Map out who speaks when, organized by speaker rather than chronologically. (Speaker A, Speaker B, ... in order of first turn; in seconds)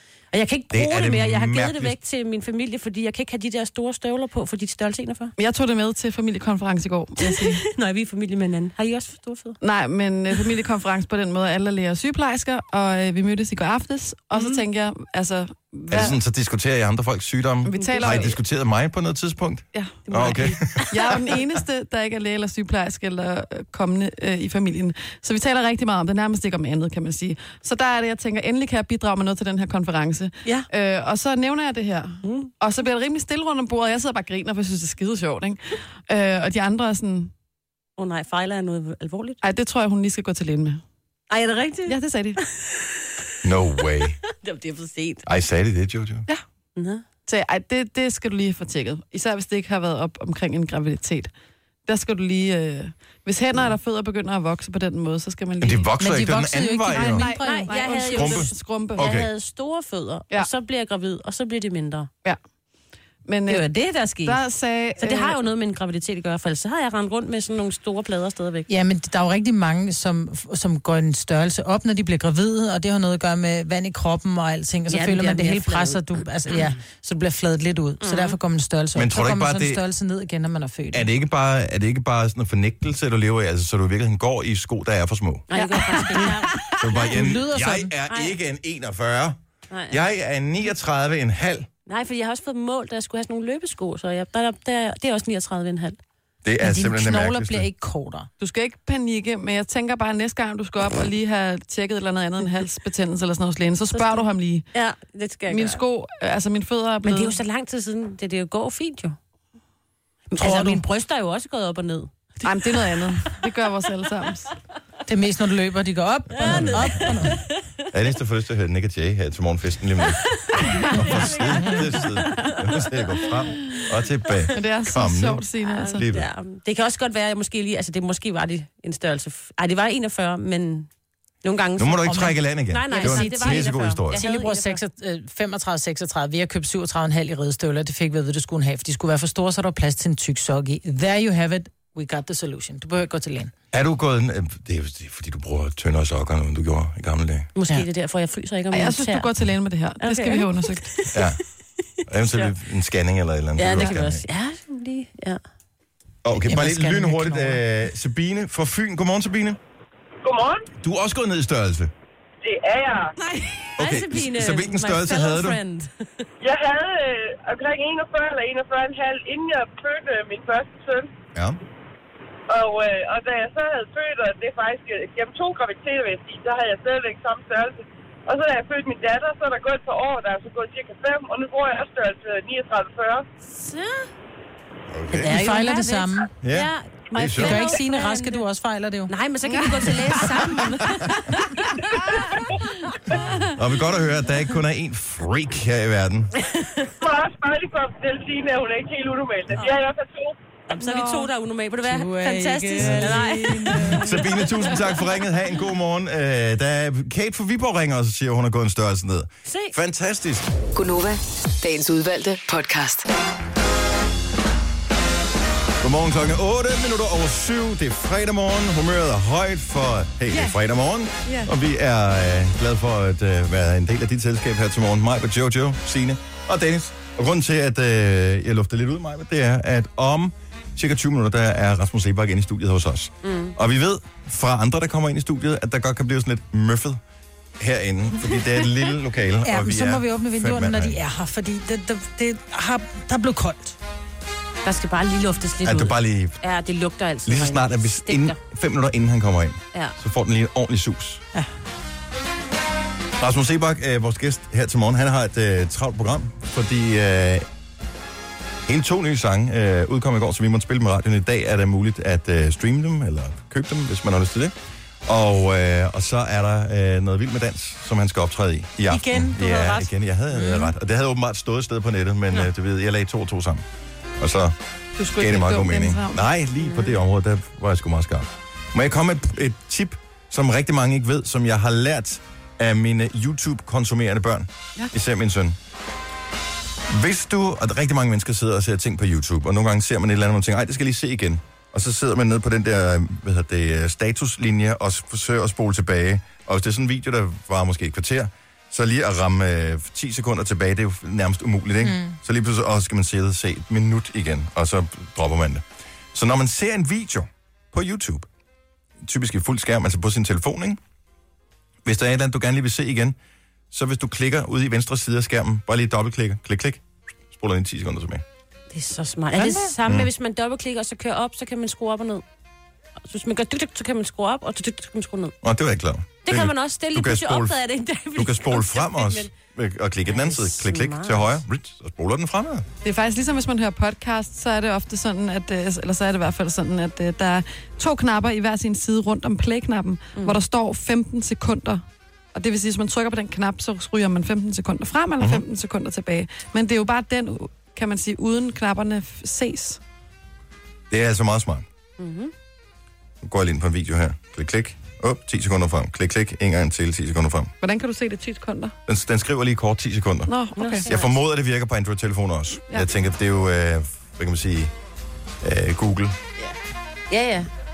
Speaker A: 0.3-5.3, 7.2-9.6, 14.3-14.7, 17.8-18.2, 32.2-32.5, 38.0-39.4, 41.3-43.2, 44.3-45.2, 46.8-47.0, 57.3-62.1, 63.5-64.4, 65.0-68.7, 74.9-76.7, 78.0-78.4, 85.5-86.6, 88.1-88.4, 89.7-90.0, 91.9-96.0, 103.9-105.8, 107.0-109.2, 110.3-112.1, 116.4-117.7, 120.4-123.3, 125.6-130.9, 131.4-134.8, 147.6-149.3, 150.0-151.3, 153.6-155.4, 163.8-166.2, 183.5-184.1, 185.2-188.4, 189.1-192.5, 196.5-196.9, 200.7-204.8, 209.5-209.7, 233.2-233.6, 244.6-248.4, 318.7-322.2, 323.1-325.4, 326.2-329.3, 330.1-331.4, 340.2-340.4, 352.0-352.3, 360.6-361.1, 367.1-367.5
Speaker B: 0.7-2.0, 15.9-21.3, 43.4-44.2, 45.3-46.3, 55.6-57.3, 58.1-59.3, 79.0-79.8, 80.9-85.5, 86.8-89.4, 89.9-91.7, 96.4-97.7, 116.4-117.0, 117.9-120.3, 120.9-126.3, 131.8-134.2, 143.7-147.5, 151.1-151.4, 152.1-154.2, 156.2-159.6, 160.8-161.9, 163.8-165.6, 184.9-185.3, 186.4-187.7, 193.5-196.3, 203.9-210.5, 215.8-237.0, 237.6-241.0, 245.6-246.4, 247.3-251.2, 253.2-257.5, 258.7-264.5, 265.1-273.6, 274.2-274.6, 275.1-285.6, 286.9-308.3, 309.0-310.8, 311.9-313.2, 313.7-318.2, 325.4-327.6, 328.1-332.7, 345.2-345.4, 350.9-351.7, 353.2-357.5, 358.9-360.3, 360.9-364.7, 365.4-366.2
Speaker C: 5.4-7.6, 9.6-16.2, 17.6-18.4, 19.7-37.3, 39.4-40.8, 41.9-42.4, 47.3-51.3, 51.9-55.9, 56.9-59.1, 63.2-63.6, 64.2-65.4, 85.5-86.8, 98.4-104.7, 105.5-107.4, 112.4-114.5, 120.8-121.3, 124.5-126.0, 148.7-150.9, 189.5-190.6, 191.9-192.2, 193.1-193.5, 200.8-201.3, 220.3-220.6, 275.0-276.2, 332.8-341.8, 342.3-349.8, 357.6-358.7, 360.3-360.9
Speaker D: 56.0-57.7, 68.7-81.1, 87.0-87.9, 96.6-98.3, 110.4-110.8, 115.1-117.4, 132.1-132.3, 132.9-143.5, 156.4-157.6, 185.2-186.3, 187.3-189.1, 201.8-204.1, 239.4-243.8, 268.9-270.7, 301.8-302.2, 319.4-319.8
Speaker E: 160.2-160.7, 162.4-163.2, 166.4-171.1, 172.5-183.3, 197.0-200.4
Speaker F: 210.8-213.1